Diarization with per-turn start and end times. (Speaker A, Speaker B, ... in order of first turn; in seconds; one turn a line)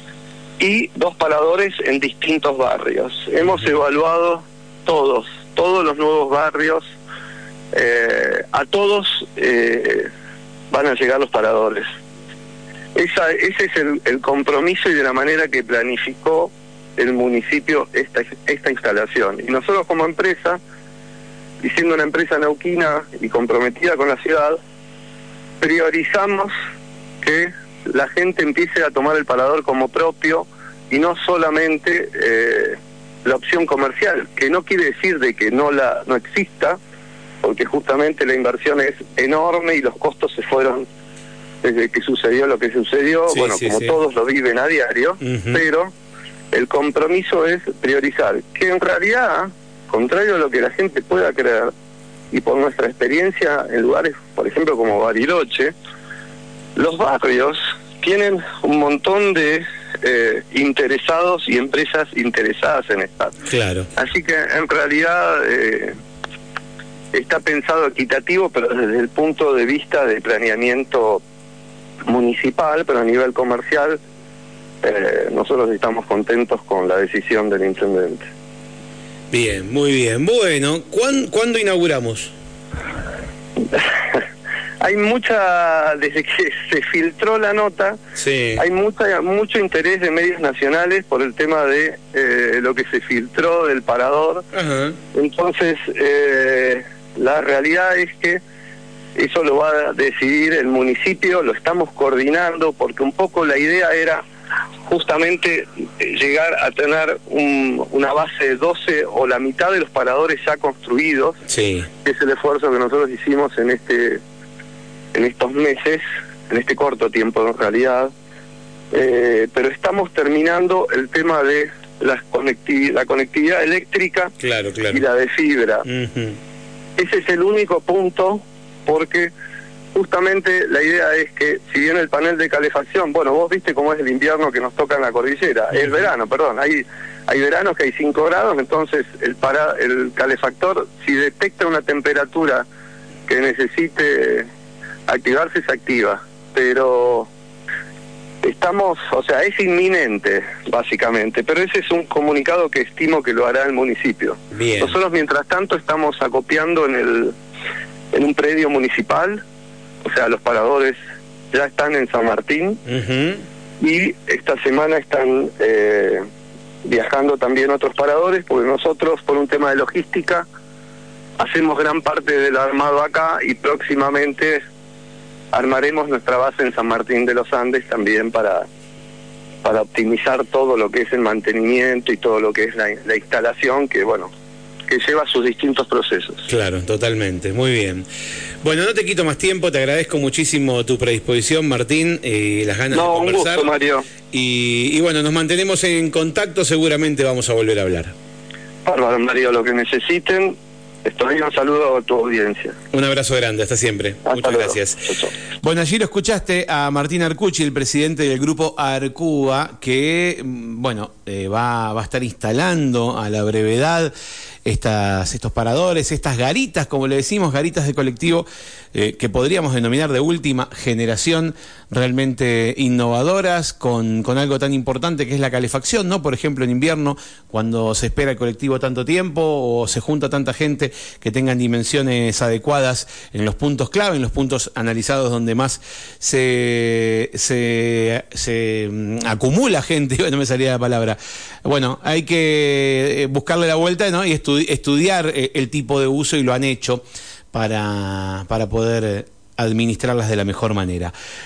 Speaker A: 0.6-6.9
Speaker A: 7.7-10.1
Speaker A: 10.7-11.8
Speaker A: 12.9-20.6
Speaker A: 21.6-24.6
Speaker A: 25.6-26.5
Speaker A: 27.2-36.8
Speaker A: 37.4-40.9
Speaker A: 41.6-45.9
Speaker B: 43.3-44.0
Speaker B: 45.2-45.6
Speaker A: 46.5-51.7
Speaker A: 52.3-55.7
Speaker A: 56.8-63.3
Speaker B: 63.5-63.9
Speaker A: 64.0-65.9
Speaker A: 67.1-71.2
Speaker A: 72.1-74.0
Speaker A: 74.8-78.3
Speaker B: 79.3-82.3
Speaker A: 83.7-84.2
Speaker A: 84.8-88.0
Speaker B: 88.2-88.6
Speaker A: 88.6-94.5
Speaker B: 94.5-95.0
Speaker A: 95.1-98.4
Speaker A: 99.2-104.2
Speaker A: 104.8-111.4
Speaker B: 111.5-111.9
Speaker A: 112.0-114.2
Speaker A: 115.1-118.1
Speaker A: 118.9-124.3
Speaker B: 124.4-125.0
Speaker A: 124.9-125.8
Speaker B: 125.8-126.4
Speaker A: 127.0-129.3
Speaker A: 129.9-142.6
Speaker A: 143.3-144.5
Speaker A: 145.1-147.3
Speaker A: 148.4-157.3
Speaker B: 154.5-154.9
Speaker A: 158.1-159.4
Speaker A: 160.0-161.0
Speaker A: 161.5-162.8
Speaker B: 162.8-163.4
Speaker A: 163.8-166.2
Speaker A: 166.8-170.4
Speaker A: 171.4-174.6
Speaker A: 175.5-178.7
Speaker A: 179.6-184.3
Speaker A: 184.9-186.5
Speaker B: 186.5-188.0
Speaker B: 188.6-193.6
Speaker A: 192.9-194.1
Speaker B: 194.3-198.1
Speaker A: 198.8-202.7
Speaker B: 202.9-205.0
Speaker A: 204.2-205.3
Speaker B: 205.6-214.1
Speaker B: 214.6-251.1